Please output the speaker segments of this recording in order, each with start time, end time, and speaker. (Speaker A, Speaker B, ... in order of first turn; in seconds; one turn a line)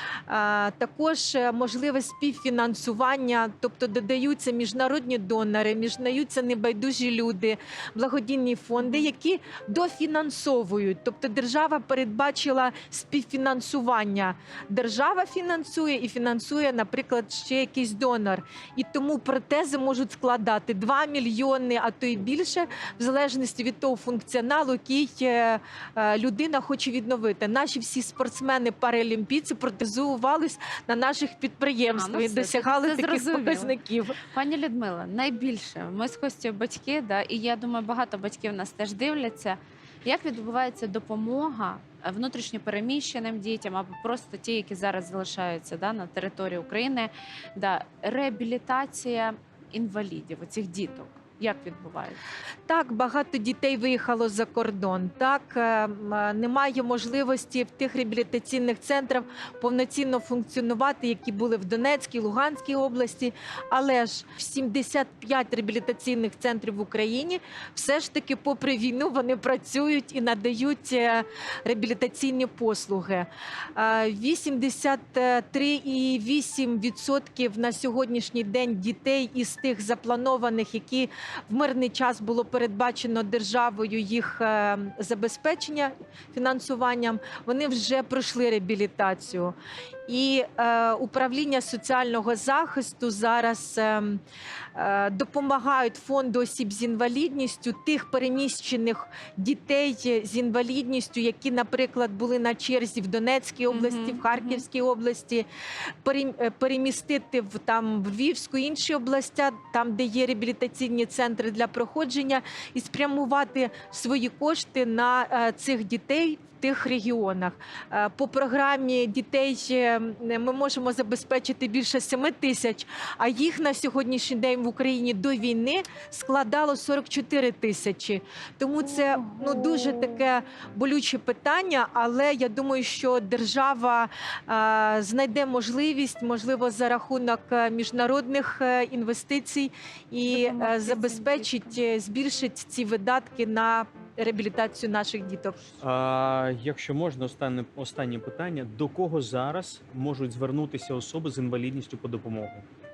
Speaker A: 0.3-34.2
Speaker B: 8.8-9.1
Speaker B: 31.9-33.7
Speaker B: 34.3-52.2
Speaker A: 52.7-89.5
Speaker A: 90.1-94.2
Speaker A: 94.8-105.5
Speaker B: 103.7-104.6
Speaker A: 106.0-145.7
Speaker B: 140.3-141.8
Speaker C: 145.8-152.7